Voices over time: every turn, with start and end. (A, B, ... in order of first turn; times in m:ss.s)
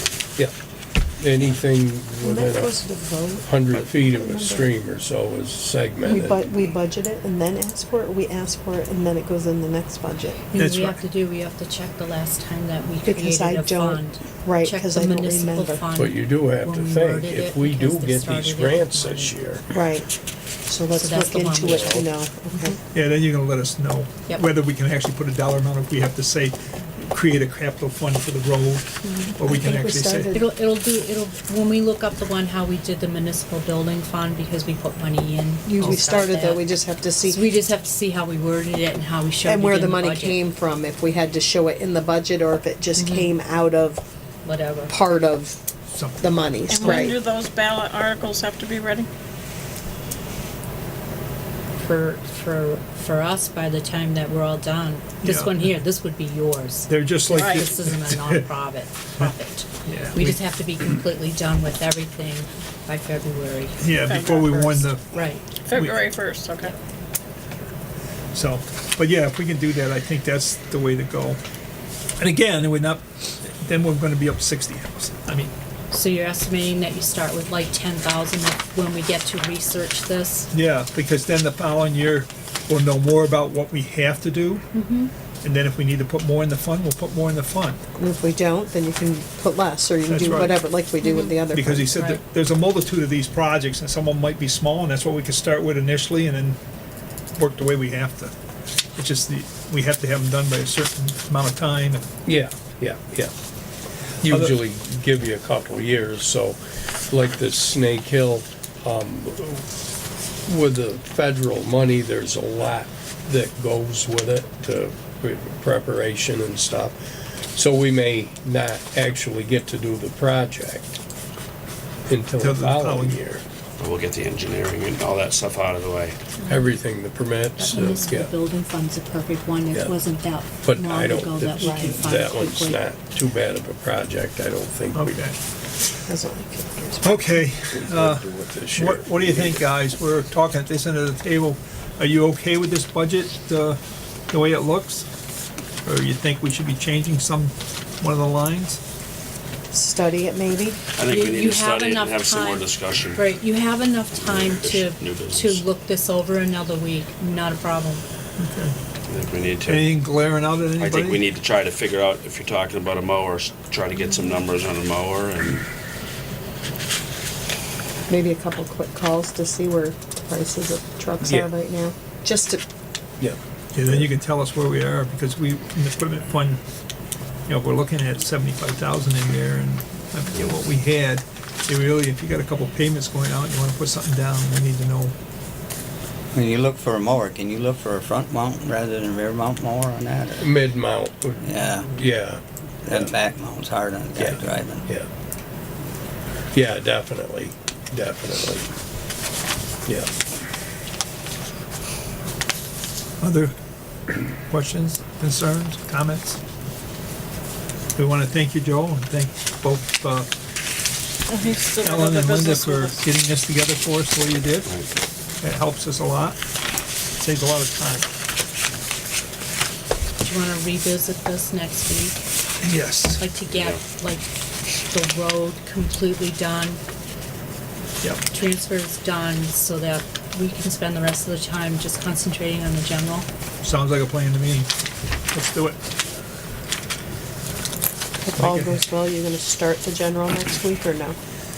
0:01.2-0:02.8 A
0:02.2-0:04.7 B
0:03.4-0:06.5 A
0:06.0-0:10.4 B
0:10.5-0:19.4 C
0:10.5-0:11.0 D
0:13.0-0:15.8 B
0:16.0-0:19.6 A
0:19.7-0:20.1 B
0:20.7-0:22.8 B
0:20.9-0:22.1 C
0:22.9-0:26.6 D
0:27.1-0:30.4 D
0:29.4-0:30.5 B
0:30.3-0:36.7 C
0:35.6-0:37.6 B
0:37.2-0:40.4 C
0:39.4-0:44.0 B
0:43.0-0:43.3 C
0:44.4-0:45.0 C
0:44.9-0:45.6 B
0:45.9-0:46.3 D
0:46.2-0:47.2 B
0:47.1-0:49.1 E
0:51.8-1:04.3 C
0:55.2-0:55.8 D
0:56.9-0:58.4 D
0:59.8-1:00.4 D
1:03.8-1:06.0 D
1:04.0-1:04.4 E
1:05.1-1:05.6 C
1:05.7-1:06.7 E
1:08.3-1:11.4 D
1:12.2-1:15.5 D
1:15.9-1:20.5 C
1:20.5-1:24.6 D
1:24.7-1:25.1 C
1:25.4-1:27.8 D
1:28.0-1:31.9 B
1:30.1-1:30.6 D
1:31.0-1:32.2 C
1:31.5-1:36.6 D
1:37.4-1:38.3 D
1:39.0-1:42.0 D
1:42.2-1:43.3 A
1:44.2-1:49.7 A
1:44.2-1:44.6 D
1:50.4-1:57.0 A
1:57.5-2:01.0 A
2:02.1-2:03.4 A
2:02.4-2:03.2 D
2:03.8-2:06.2 F
2:06.5-2:08.3 A
2:07.6-2:12.8 C
2:10.6-2:15.3 A
2:11.6-2:11.9 B
2:14.9-2:15.3 D
2:16.1-2:17.2 B
2:17.0-2:23.8 D
2:17.7-2:19.6 A
2:24.3-2:25.1 D
2:25.8-2:28.8 D
2:29.7-2:30.8 B
2:31.0-2:33.3 F
2:31.0-2:38.0 C
2:34.1-2:35.6 F
2:38.4-2:38.8 D
2:39.1-2:40.0 F
2:39.6-2:41.2 D
2:40.8-2:45.7 F
2:48.1-2:52.6 B
2:51.2-2:51.5 A
2:53.2-2:54.1 A
2:53.7-2:56.6 D
2:57.5-3:05.2 D
3:06.3-3:10.5 G
3:10.4-3:13.2 A
3:11.4-3:11.9 G
3:12.8-3:14.9 G
3:14.2-3:15.1 A
3:16.5-3:18.7 A
3:23.2-3:23.5 D
3:24.3-3:26.4 D
3:28.0-3:30.3 D
3:31.4-3:32.8 E
3:31.8-3:34.7 D
3:35.4-3:36.4 D
3:37.2-3:38.1 D
3:40.2-3:42.2 C
3:42.6-3:43.2 D
3:43.2-3:46.8 C
3:43.5-3:43.8 F
3:48.3-3:53.3 C
3:53.6-3:54.7 D
3:55.3-3:55.8 D
3:58.2-4:01.2 B
3:58.4-3:58.8 D